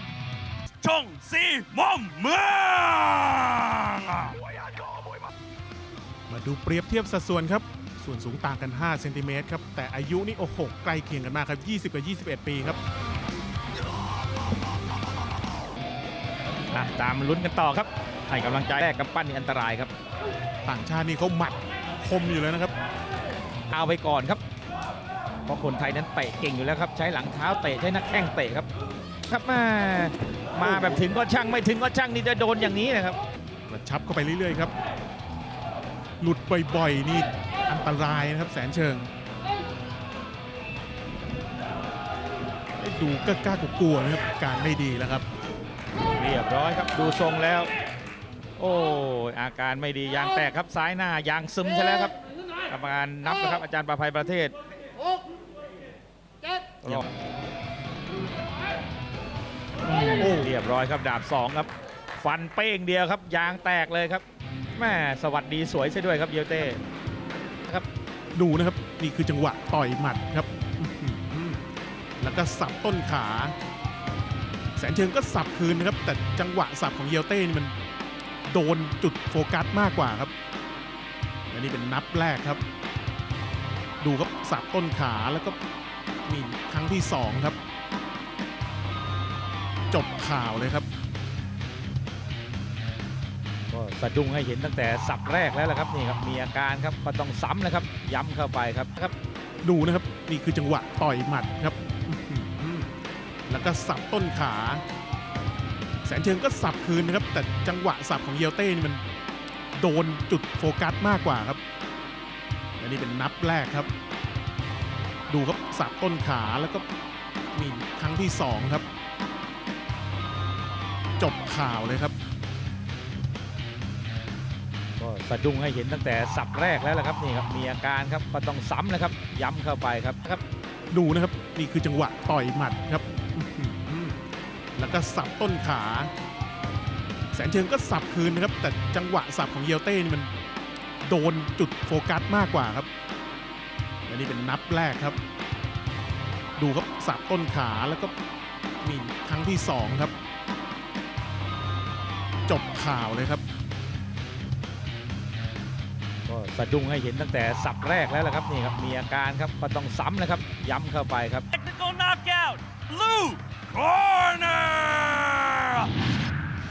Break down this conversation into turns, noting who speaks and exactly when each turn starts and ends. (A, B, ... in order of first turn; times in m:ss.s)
0:00.8-0:04.4 A
0:06.3-0:12.8 B
0:16.7-0:19.9 C
0:20.6-0:22.7 B
0:23.7-0:24.4 C
0:25.4-0:28.7 C
0:29.3-0:33.2 C
0:30.6-0:31.0 B
0:33.7-0:34.7 B
0:36.2-0:39.1 B
0:42.8-0:45.2 B
0:46.1-0:47.7 C
0:48.6-0:52.1 C
0:52.7-0:54.5 C
0:59.8-1:04.2 C
1:00.2-1:00.5 B
1:04.7-1:06.8 C
1:08.3-1:11.6 B
1:12.2-1:13.5 B
1:14.8-1:17.7 B
1:18.4-1:20.3 B
1:21.5-1:22.6 B
1:24.0-1:25.6 B
1:26.2-1:27.6 B
1:29.9-1:30.8 B
1:33.7-1:39.1 C
1:39.6-1:42.9 B
1:43.5-1:44.8 B
1:46.0-1:49.0 B
1:49.7-1:51.6 B
1:52.8-1:53.9 B
1:55.3-1:56.8 B
1:57.5-1:58.8 B
2:01.2-2:02.1 B
2:05.0-2:10.4 C
2:10.9-2:14.2 B
2:14.8-2:16.1 B
2:17.3-2:20.3 B
2:21.0-2:22.9 B
2:24.1-2:25.2 B
2:26.6-2:28.1 B
2:28.8-2:30.1 B
2:32.5-2:33.4 B
2:36.2-2:41.4 C
2:41.5-2:45.9 A